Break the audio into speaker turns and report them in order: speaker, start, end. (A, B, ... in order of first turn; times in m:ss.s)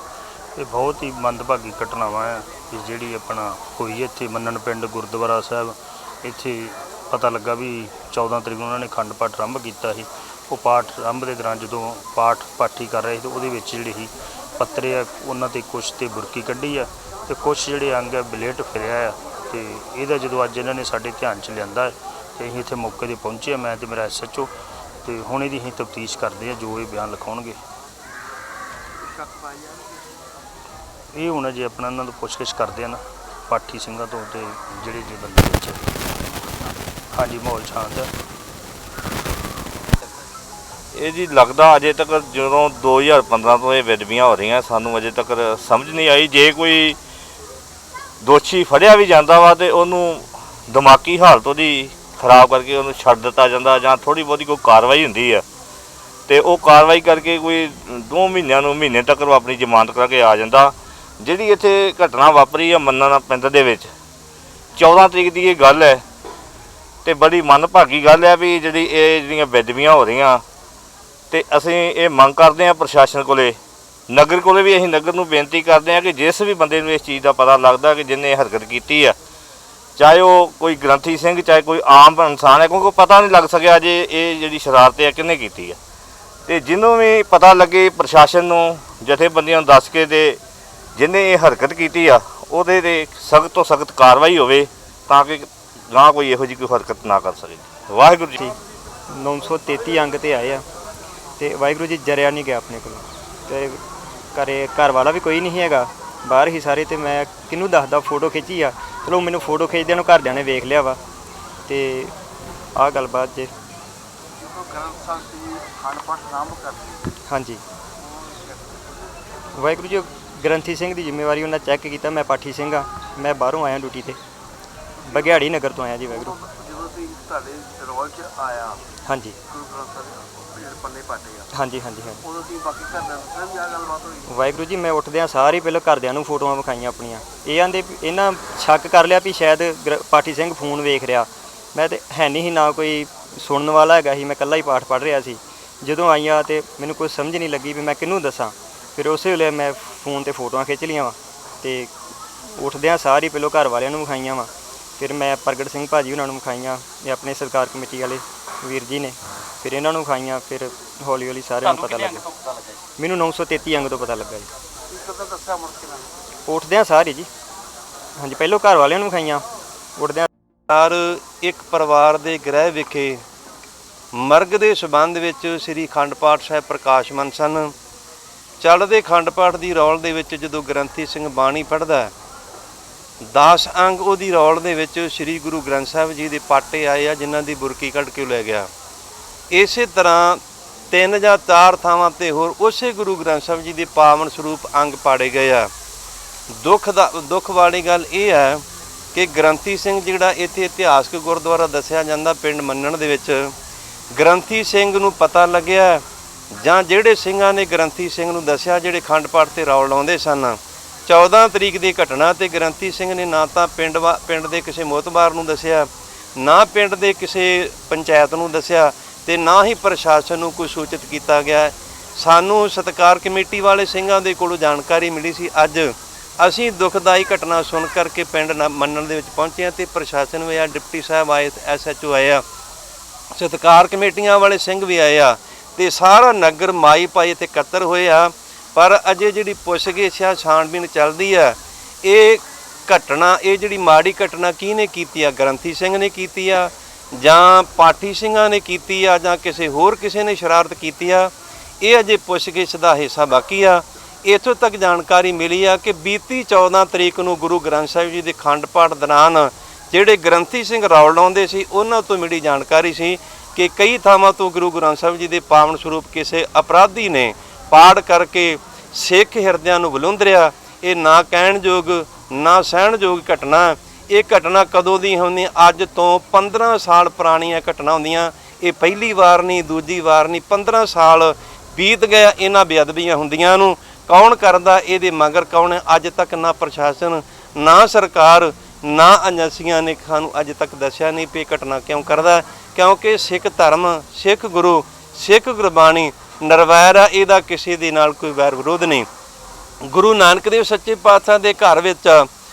0:00.6-0:24.5 A
0:25.0-0:27.6 A
0:29.0-0:30.2 B
0:31.1-0:35.8 A
0:37.1-0:38.1 A
0:40.9-0:47.0 C
0:48.2-0:55.4 C
0:56.3-1:03.9 C
1:04.8-1:06.0 C
1:07.0-1:10.4 C
1:11.3-1:13.6 C
1:14.1-1:19.2 C
1:20.0-1:25.8 C
1:26.5-1:30.4 C
1:31.0-1:38.4 C
1:39.1-1:40.6 D
1:41.4-1:43.8 D
1:44.3-1:51.0 D
1:51.7-1:52.1 D
1:52.8-1:53.5 D
1:54.4-1:57.1 B
1:57.3-1:57.6 D
1:58.0-1:59.2 B
1:59.6-2:04.2 D
2:05.0-2:05.4 B
2:05.1-2:06.3 D
2:06.1-2:08.8 B
2:09.1-2:09.4 D
2:09.5-2:11.5 B
2:11.5-2:12.2 D
2:12.2-2:14.3 B
2:14.3-2:31.9 D
2:32.6-2:42.3 D
2:43.0-2:44.5 D
2:44.9-2:46.1 B
2:46.5-2:47.3 D
2:48.2-2:49.4 D
2:50.0-2:50.3 D
2:50.7-2:53.2 E
2:54.1-2:57.7 E
2:58.6-3:02.1 E
3:03.3-3:08.7 E
3:09.5-3:10.4 E
3:10.9-3:15.7 E
3:16.6-3:18.6 E
3:19.1-3:23.5 E
3:24.2-3:26.0 E
3:26.6-3:52.4 E
3:53.4-4:59.1 E
4:59.9-5:02.3 E